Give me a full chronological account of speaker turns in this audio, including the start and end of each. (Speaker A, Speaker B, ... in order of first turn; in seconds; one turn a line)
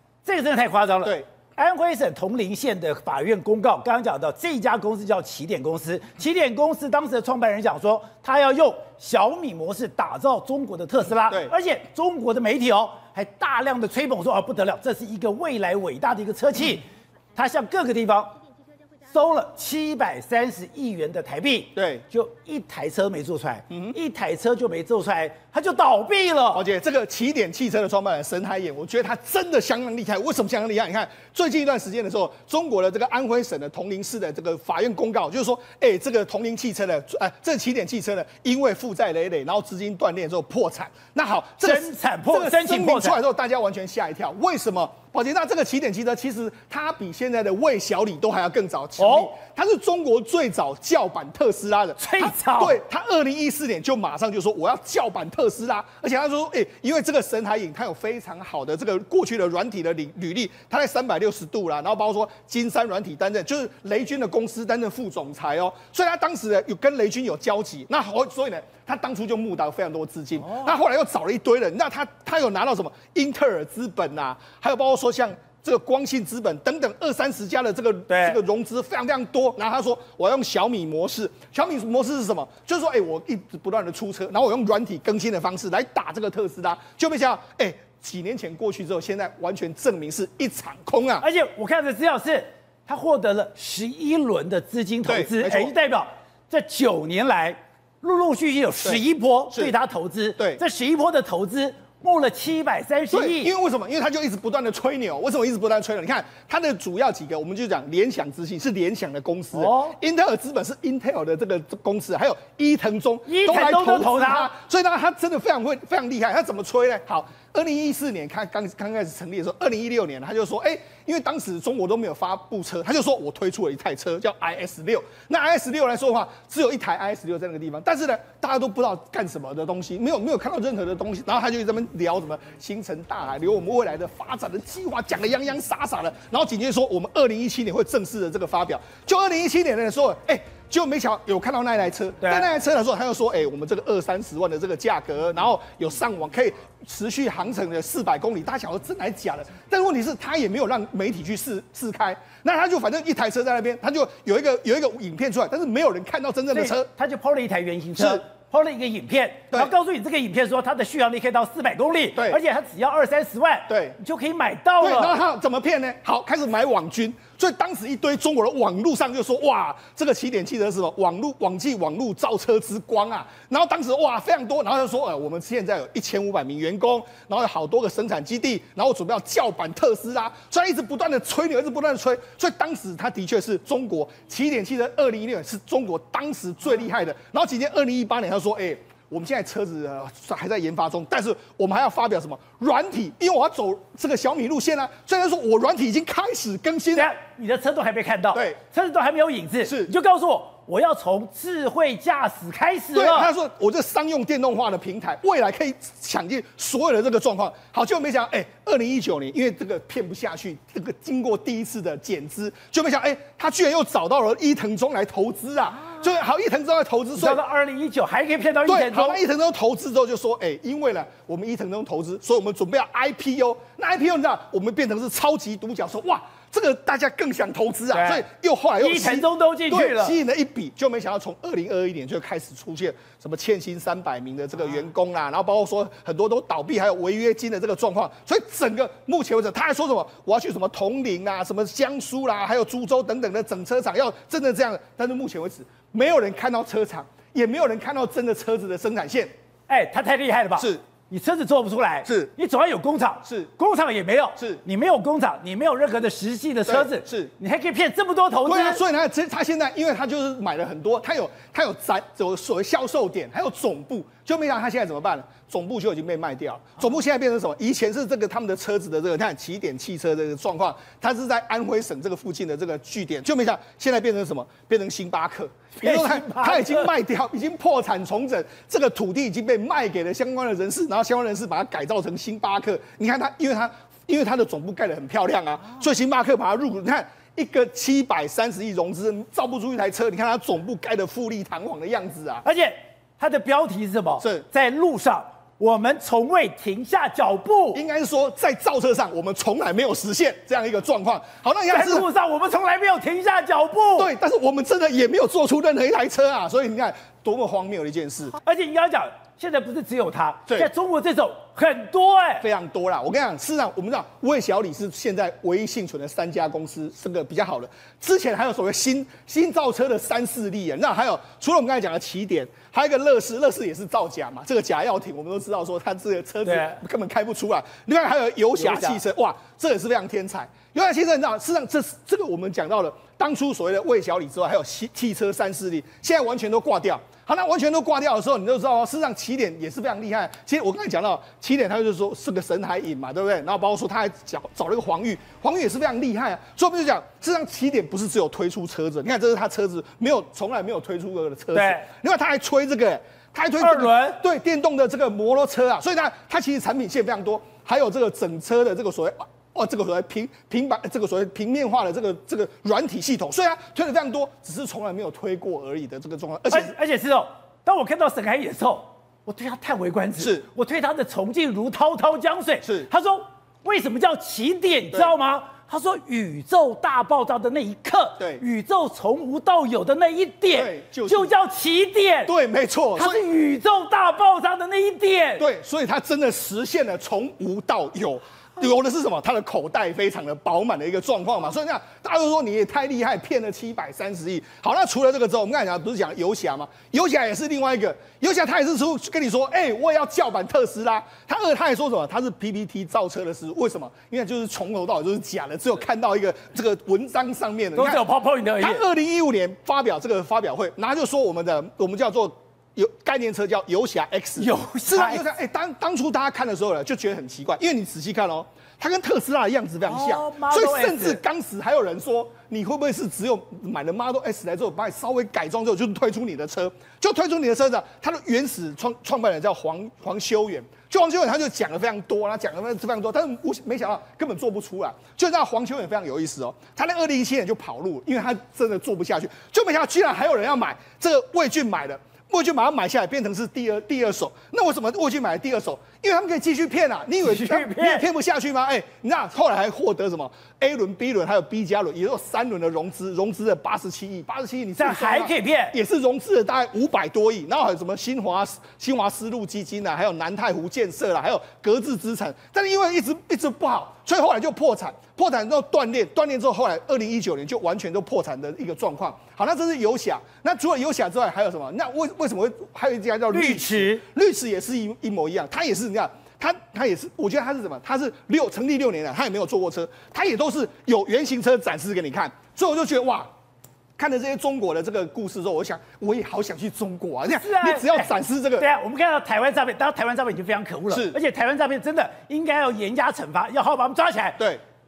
Speaker A: 0.2-18.4
Speaker A: 19.0-26.6
Speaker B: 21.8-22.0
Speaker B: 26.5-91.2
Speaker A: 41.6-43.2
Speaker A: 49.0-49.3
Speaker A: 52.0-52.8
Speaker A: 70.4-70.7
Speaker A: 78.1-78.4
Speaker A: 91.2-103.5
Speaker B: 95.1-95.7
Speaker B: 103.1-156.9
Speaker A: 109.5-110.0
Speaker A: 113.3-114.5
Speaker A: 142.2-142.5
Speaker A: 156.5-165.2
Speaker B: 158.0-158.2
Speaker B: 162.1-162.4
Speaker B: 163.7-163.9
Speaker B: 164.8-197.1
Speaker A: 196.9-203.3
Speaker B: 198.3-198.6
Speaker B: 199.6-199.9
Speaker B: 202.9-217.4
Speaker A: 217.2-219.2
Speaker B: 218.7-249.3
Speaker A: 227.9-228.2
Speaker A: 228.8-230.2
Speaker A: 249.7-258.8
Speaker B: 256.7-257.3
Speaker B: 258.4-292.4
Speaker A: 275.8-276.9
Speaker A: 292.4-297.8
Speaker B: 297.7-302.1
Speaker A: 301.7-304.1
Speaker B: 304.0-308.3
Speaker A: 308.4-312.4
Speaker B: 312.4-366.7
Speaker A: 326.4-326.8
Speaker A: 328.6-329.0
Speaker A: 351.5-351.9
Speaker A: 353.6-354.2
Speaker A: 366.5-382.3
Speaker B: 370.2-370.4
Speaker B: 372.6-372.9
Speaker B: 380.5-381.3
Speaker B: 382.3-383.2
Speaker A: 382.9-385.4
Speaker B: 385.4-408.0
Speaker A: 407.7-408.8
Speaker B: 408.6-483.3
Speaker A: 414.4-415.2
Speaker A: 419.8-421.2
Speaker A: 447.2-448.0
Speaker A: 454.8-455.7
Speaker A: 473.3-474.0
Speaker B: 484.0-488.7
Speaker A: 487.4-494.4
Speaker B: 490.9-491.2